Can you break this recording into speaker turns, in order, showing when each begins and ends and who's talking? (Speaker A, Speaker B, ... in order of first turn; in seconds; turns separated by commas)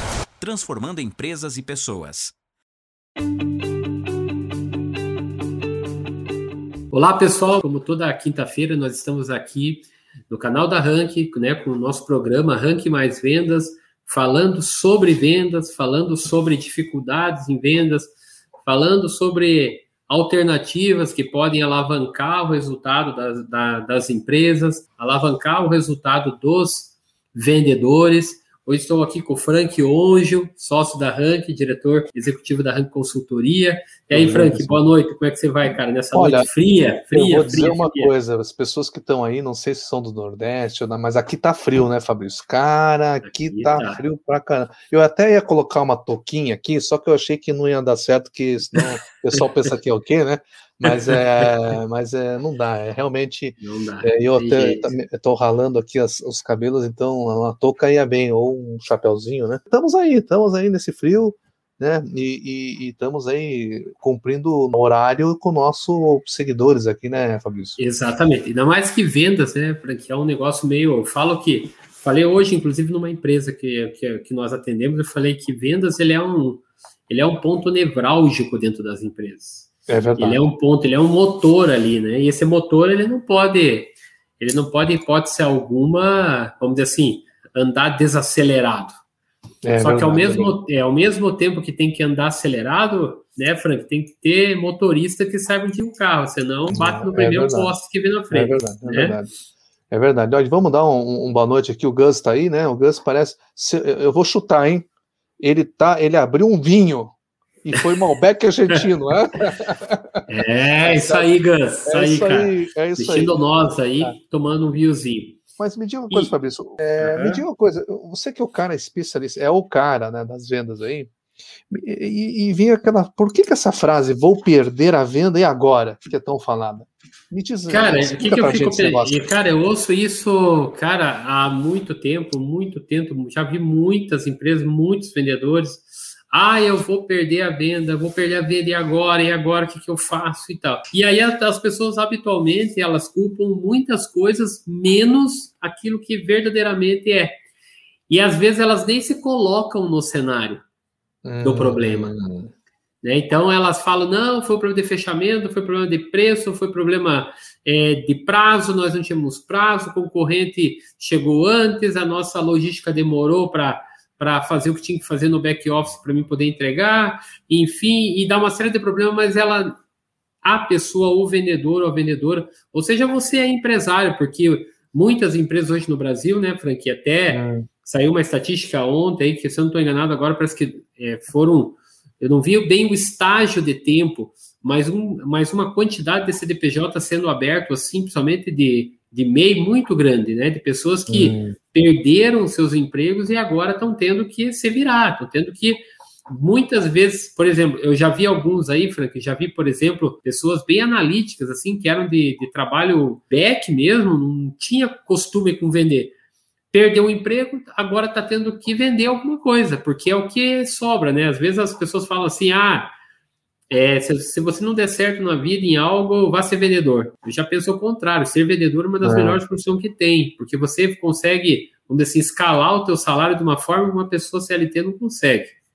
Speaker A: 0.4-2.3, Speaker B: 6.9-18.1, Speaker B: 18.6-38.1, Speaker C: 34.1-34.8, Speaker C: 36.1-36.5, Speaker C: 37.1-67.8, Speaker B: 43.2-44.0, Speaker B: 50.9-51.5, Speaker B: 53.6-54.9, Speaker B: 67.8-88.9, Speaker C: 79.9-80.4, Speaker C: 89.6-90.5, Speaker B: 89.8-99.2, Speaker C: 96.7-97.8, Speaker C: 98.3-99.3, Speaker C: 99.9-104.9, Speaker C: 105.4-110.2, Speaker B: 110.3-115.4, Speaker C: 110.9-111.3, Speaker C: 111.8-113.3, Speaker C: 115.6-121.1, Speaker B: 117.0-117.4, Speaker C: 121.7-129.2, Speaker B: 127.7-147.3, Speaker B: 148.1-150.6, Speaker C: 151.2-152.5, Speaker B: 151.4-152.1, Speaker B: 153.0-169.8, Speaker B: 170.4-206.1, Speaker C: 177.3-177.7, Speaker C: 191.1-191.6, Speaker B: 206.7-212.9, Speaker B: 213.7-225.5, Speaker C: 219.0-219.4